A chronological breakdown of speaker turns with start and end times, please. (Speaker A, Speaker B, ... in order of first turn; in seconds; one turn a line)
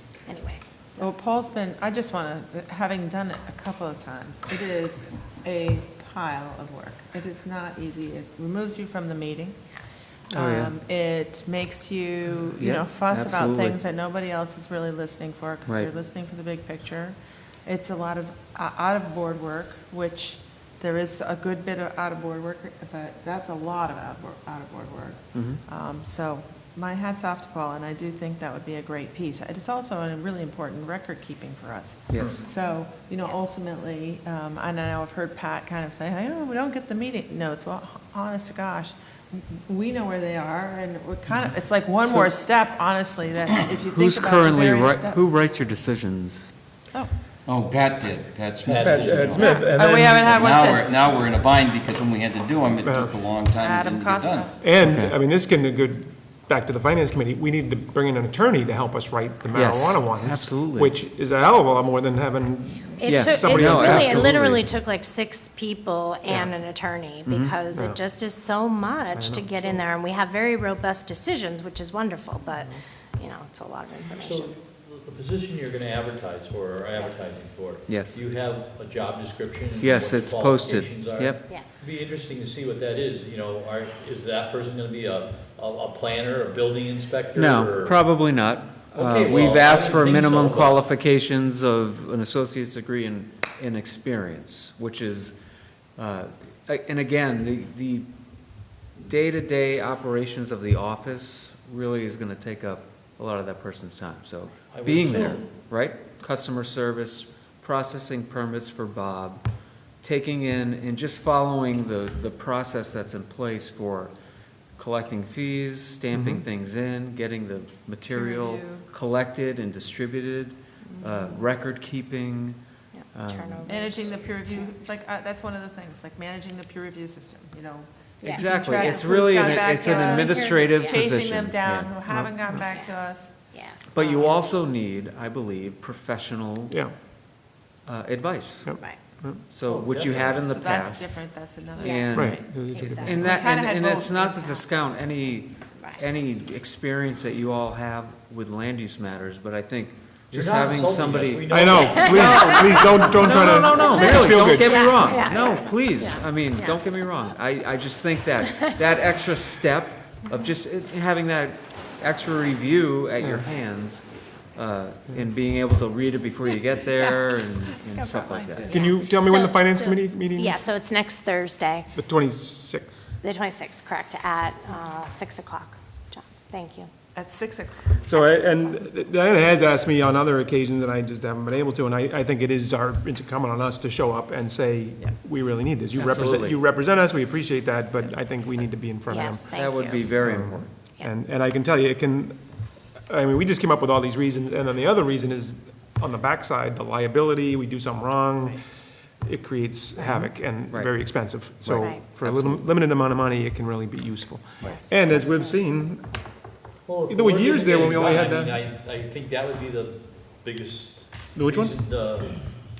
Speaker A: 0.3-1.1
Speaker B: 1.0-9.6
Speaker C: 10.3-10.7
Speaker B: 10.3-45.3
Speaker C: 12.5-13.8
Speaker C: 15.7-15.9
Speaker C: 25.3-25.6
Speaker C: 32.1-32.4
Speaker A: 33.2-33.5
Speaker C: 43.9-46.5
Speaker D: 47.5-54.5
Speaker E: 48.6-49.4
Speaker F: 48.8-50.6
Speaker B: 49.3-51.1
Speaker F: 52.8-53.1
Speaker B: 53.6-54.6
Speaker F: 54.6-64.6
Speaker C: 54.8-55.1
Speaker C: 59.5-60.9
Speaker A: 63.0-74.5
Speaker C: 63.0-64.6
Speaker C: 67.2-67.5
Speaker F: 67.7-68.0
Speaker F: 69.1-69.8
Speaker E: 74.1-88.0
Speaker C: 77.9-78.2
Speaker C: 79.8-81.4
Speaker A: 81.5-81.8
Speaker C: 87.3-95.3
Speaker E: 88.9-90.8
Speaker C: 96.0-98.1
Speaker C: 99.0-109.4
Speaker E: 104.7-105.5
Speaker C: 110.0-114.1
Speaker C: 114.8-122.6
Speaker F: 116.1-116.4
Speaker B: 118.1-118.8
Speaker A: 120.8-121.4
Speaker A: 122.9-124.7
Speaker C: 123.1-123.7
Speaker B: 123.7-133.4
Speaker A: 128.2-131.0
Speaker C: 128.3-131.9
Speaker F: 132.1-132.5
Speaker A: 132.7-134.6
Speaker C: 133.9-136.8
Speaker B: 134.0-134.3
Speaker C: 137.8-138.7
Speaker F: 138.6-139.4
Speaker C: 139.5-141.2
Speaker B: 139.6-142.4
Speaker C: 141.8-168.7
Speaker A: 141.8-143.3
Speaker F: 142.1-143.2
Speaker B: 143.2-144.5
Speaker E: 150.3-152.5
Speaker F: 151.5-155.2
Speaker A: 152.0-156.8
Speaker F: 163.2-163.4
Speaker B: 167.9-168.9
Speaker F: 168.7-170.7
Speaker A: 168.8-171.9
Speaker F: 171.9-173.1
Speaker A: 173.2-176.9
Speaker B: 177.1-178.0
Speaker F: 178.1-192.4
Speaker A: 178.1-178.8
Speaker C: 185.9-186.6
Speaker A: 189.1-190.1
Speaker C: 189.5-190.7
Speaker F: 193.1-198.6
Speaker F: 199.2-206.0
Speaker C: 200.0-200.9
Speaker C: 201.6-202.7
Speaker A: 204.6-205.6
Speaker E: 206.8-212.4
Speaker F: 207.1-208.6
Speaker F: 211.3-211.8